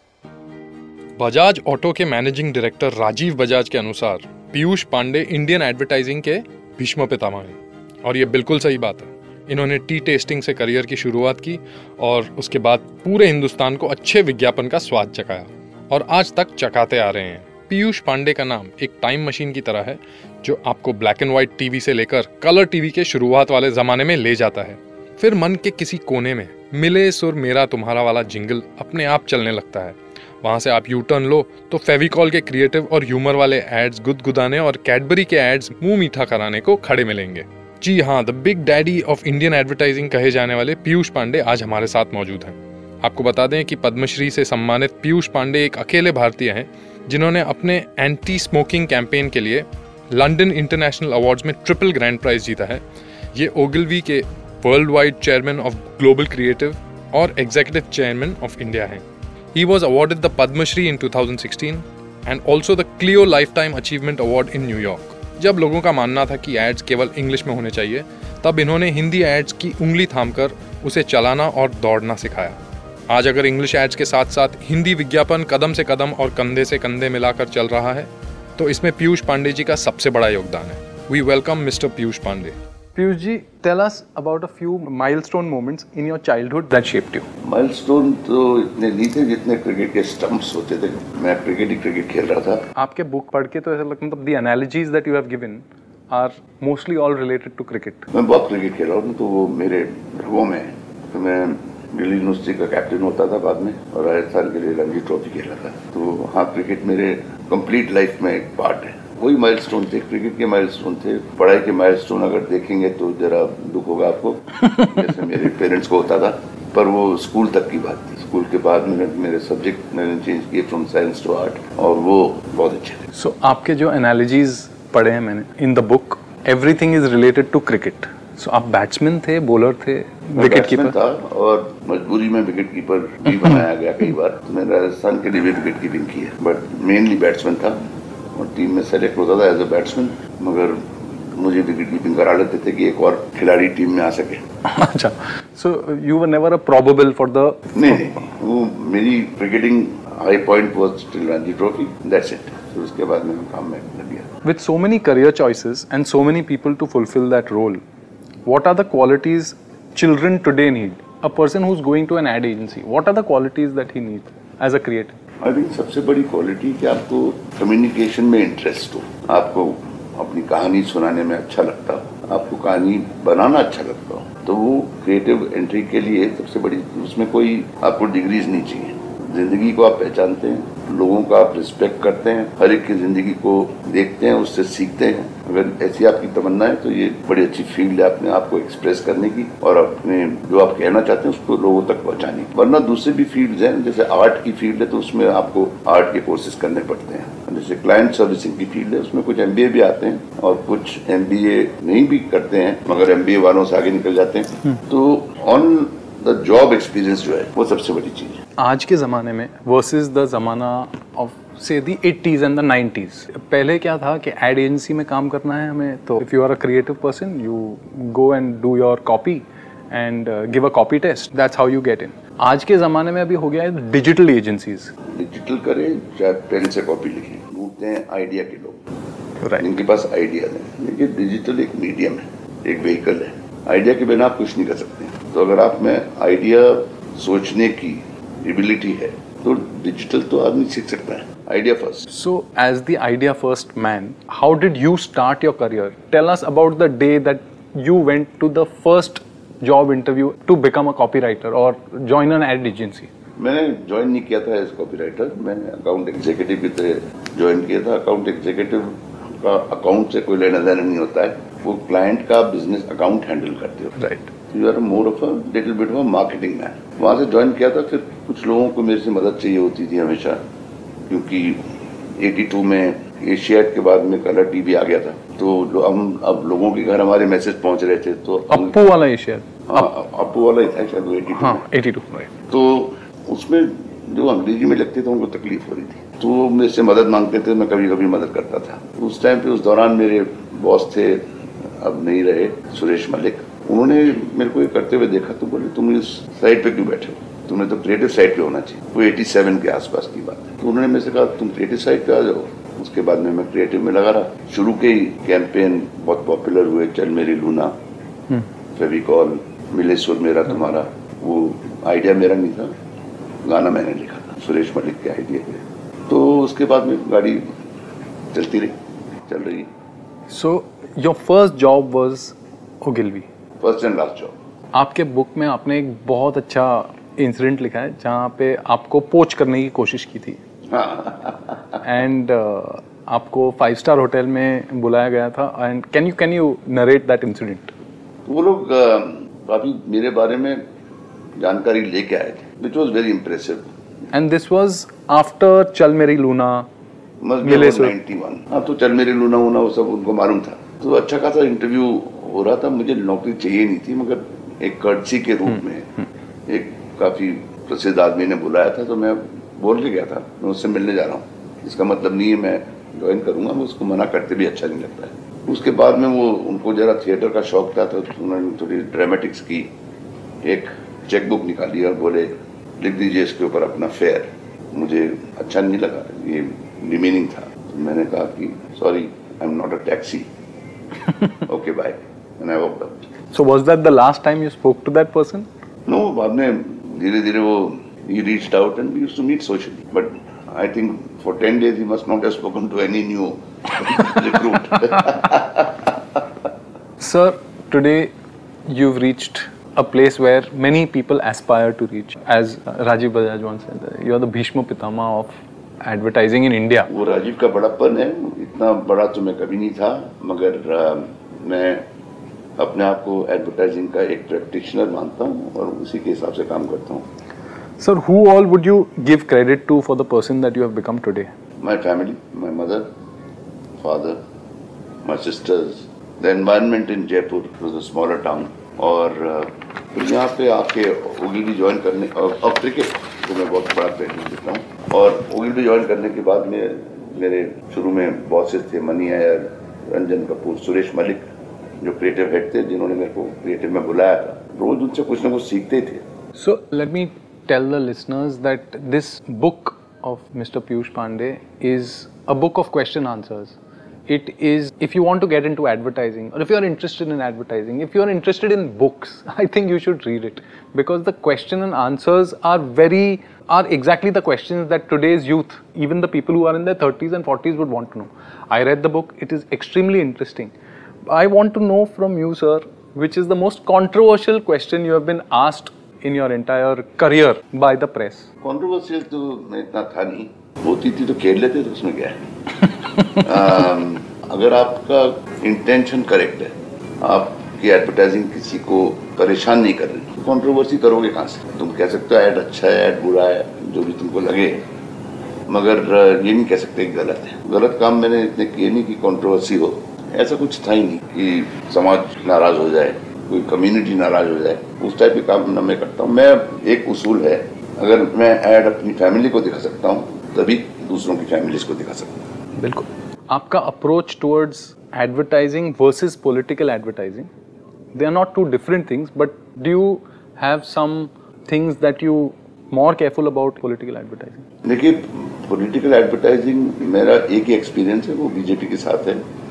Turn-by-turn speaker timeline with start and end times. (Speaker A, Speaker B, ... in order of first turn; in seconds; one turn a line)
Speaker A: 1.2-52.8
Speaker A: 53.3-59.0
Speaker A: 59.5-72.6
Speaker A: 73.1-82.6
Speaker B: 83.0-87.3
Speaker C: 87.4-92.7
Speaker B: 92.8-98.1
Speaker C: 98.1-123.0
Speaker B: 123.1-130.9
Speaker C: 130.4-144.4
Speaker B: 144.7-147.8
Speaker C: 147.7-154.3
Speaker B: 154.4-157.8
Speaker B: 158.4-165.2
Speaker C: 165.4-208.4
Speaker B: 208.6-224.9
Speaker C: 225.1-228.8
Speaker C: 229.6-242.1
Speaker B: 242.1-253.1
Speaker C: 253.4-264.0
Speaker B: 264.0-264.3
Speaker C: 264.5-270.4
Speaker C: 271.1-271.6
Speaker C: 272.2-278.8
Speaker B: 278.5-279.8
Speaker C: 279.7-281.6
Speaker B: 281.3-282.3
Speaker C: 282.5-307.8
Speaker C: 308.8-312.8
Speaker C: 313.4-317.5
Speaker C: 318.3-319.7
Speaker B: 320.3-323.3
Speaker C: 323.6-324.4
Speaker B: 324.7-330.4
Speaker C: 330.7-331.8
Speaker B: 331.8-337.7
Speaker C: 338.2-340.6
Speaker C: 341.4-343.7
Speaker B: 344.1-346.7
Speaker C: 347.2-355.9
Speaker B: 347.4-347.9
Speaker C: 356.5-369.7
Speaker C: 370.4-380.3
Speaker C: 381.4-383.1
Speaker B: 383.3-385.5
Speaker C: 385.9-395.9
Speaker B: 397.0-398.1
Speaker B: 398.7-406.9
Speaker C: 406.9-411.9
Speaker C: 412.6-417.1
Speaker B: 417.8-421.3
Speaker C: 421.6-422.9
Speaker C: 423.8-424.2
Speaker C: 425.1-441.3
Speaker C: 441.8-446.1
Speaker B: 446.4-470.5
Speaker B: 471.1-478.3
Speaker C: 478.4-482.2
Speaker C: 483.1-494.7
Speaker C: 495.5-512.2
Speaker B: 512.6-517.3
Speaker B: 517.9-524.5
Speaker C: 524.6-529.2